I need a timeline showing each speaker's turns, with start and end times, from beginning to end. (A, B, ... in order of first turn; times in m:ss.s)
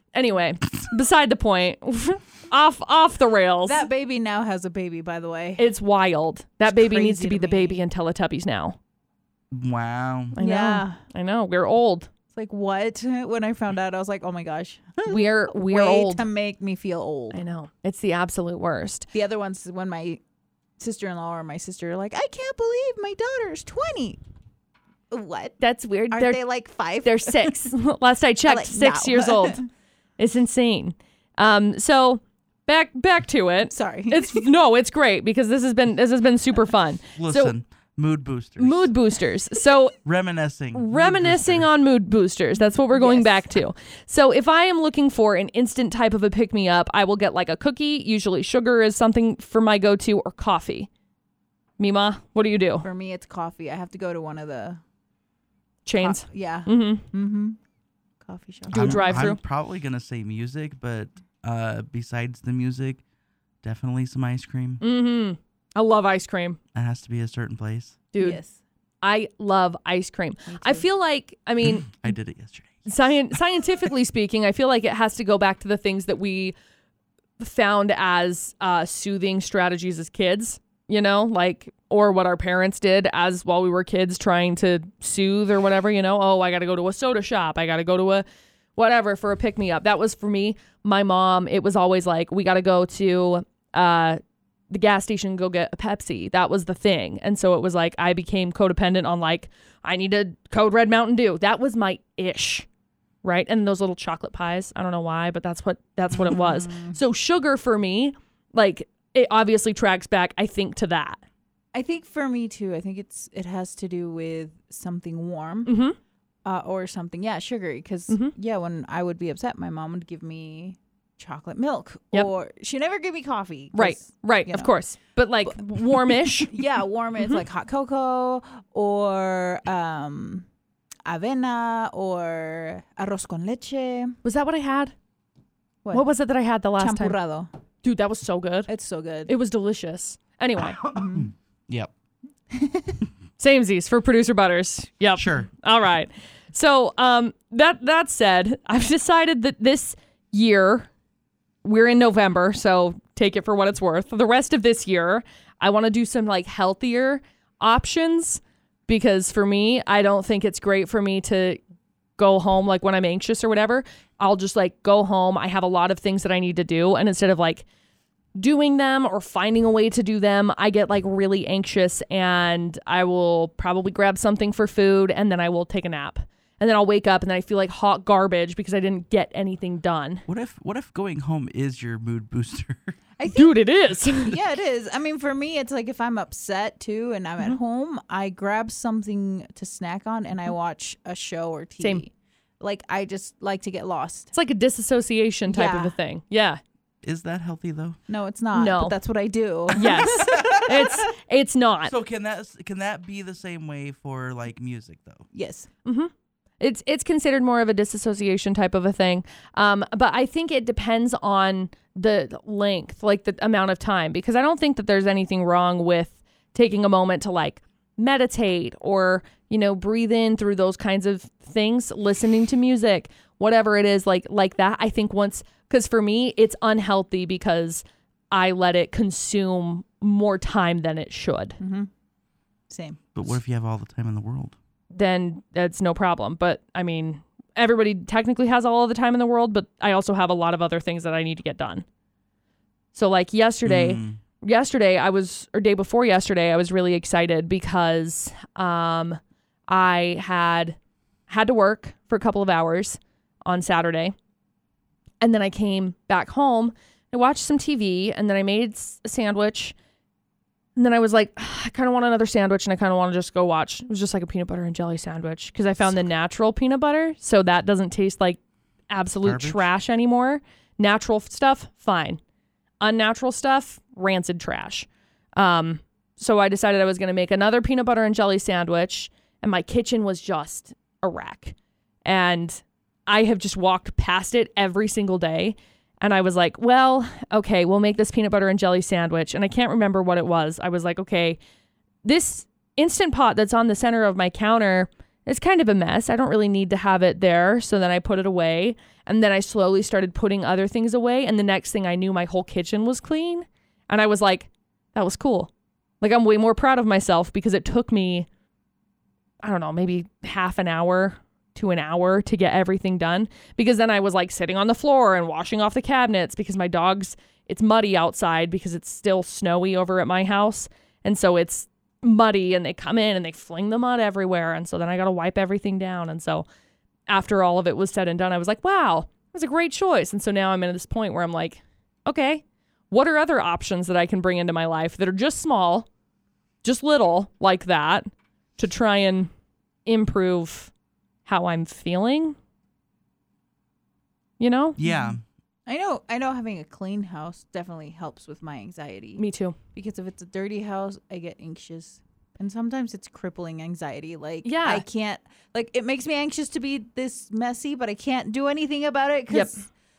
0:00.1-0:03.8 A
0:03.7-0:05.7 B
0:05.6-0:08.8 A
0:06.7-0:07.8 B
0:09.5-0:10.4 C
0:10.4-0:12.1 A
0:10.4-0:11.0 B
0:12.3-0:17.4 B
0:15.0-0:16.2 A
0:17.3-0:19.1 A
0:19.1-0:20.2 B
0:20.8-0:24.2 B
0:25.1-0:25.6 B
0:25.6-0:26.4 A
0:26.1-0:27.6 B
0:27.0-0:29.6 A
0:28.5-0:29.7 B
0:30.2-0:37.5 A
0:33.7-0:34.5 B
0:37.2-0:38.9 C
0:38.6-0:40.0 A
0:40.0-0:41.7 C
0:40.7-0:50.9 A
0:42.7-0:43.6 B
0:51.8-0:52.9 A
0:52.8-0:54.8 B
0:55.8-0:57.0 A
0:56.0-0:57.6 B
0:58.2-0:59.2 B
0:58.7-0:59.4 A
0:58.7-1:03.0 C
1:03.6-1:04.8 C
1:04.8-1:06.6 A
1:06.7-1:08.0 C
1:08.1-1:08.4 A
1:08.2-1:08.6 B
1:09.0-1:12.1 A
1:10.5-1:10.9 B
1:11.6-1:13.1 C
1:12.9-1:16.5 A
1:17.4-1:28.2 A
1:28.8-1:42.7 A
1:43.2-1:51.2 A
1:46.1-1:47.0 B
1:51.7-1:55.7 B
1:55.7-1:56.0 A
1:56.4-2:04.7 B
2:03.8-2:06.5 A
2:05.5-2:10.5 B
2:11.0-2:14.2 B
2:14.2-2:14.9 A
2:15.9-2:17.2 A
2:16.8-2:17.5 B
2:17.8-2:18.7 A
2:18.7-2:19.3 B
2:19.3-2:20.8 A
2:20.6-2:21.9 C
2:20.9-2:21.3 B
2:22.5-2:23.0 B
2:23.4-2:30.9 A
2:25.2-2:25.5 C
2:31.6-2:41.6 A
2:42.2-2:47.6 A
2:48.4-3:00.2 A
3:00.3-3:03.0 C
3:03.2-3:03.6 B
3:03.3-3:04.4 A
3:04.1-3:14.3 B
3:14.3-3:16.6 A
3:15.5-3:16.0 B
3:17.0-3:18.0 C
3:18.1-3:21.0 B
3:18.5-3:19.0 A
3:19.7-3:22.0 A
3:19.8-3:20.7 C
3:21.9-3:25.3 C
3:25.3-3:25.7 B
3:25.8-3:51.6 A
3:51.6-3:51.9 B
3:52.7-3:53.2 B
3:53.2-3:54.6 C
3:54.9-4:01.8 A
4:02.9-4:10.8 A
4:03.6-4:04.2 C
4:11.3-4:14.2 A
4:15.2-4:19.8 A
4:20.8-4:32.2 A
4:29.2-4:29.7 C
4:32.8-4:51.4 A
4:52.0-5:05.5 A
5:06.0-5:08.3 A
5:09.4-5:26.4 A
5:27.1-5:35.9 A
5:36.6-5:39.3 A
5:39.9-5:40.7 A
5:41.2-5:42.4 A
5:44.4-5:44.8 A
5:44.8-5:45.2 C
5:44.8-5:49.2 B
5:49.2-5:49.6 A
5:49.7-5:59.6 B
5:54.4-5:54.8 A
5:59.3-5:59.6 A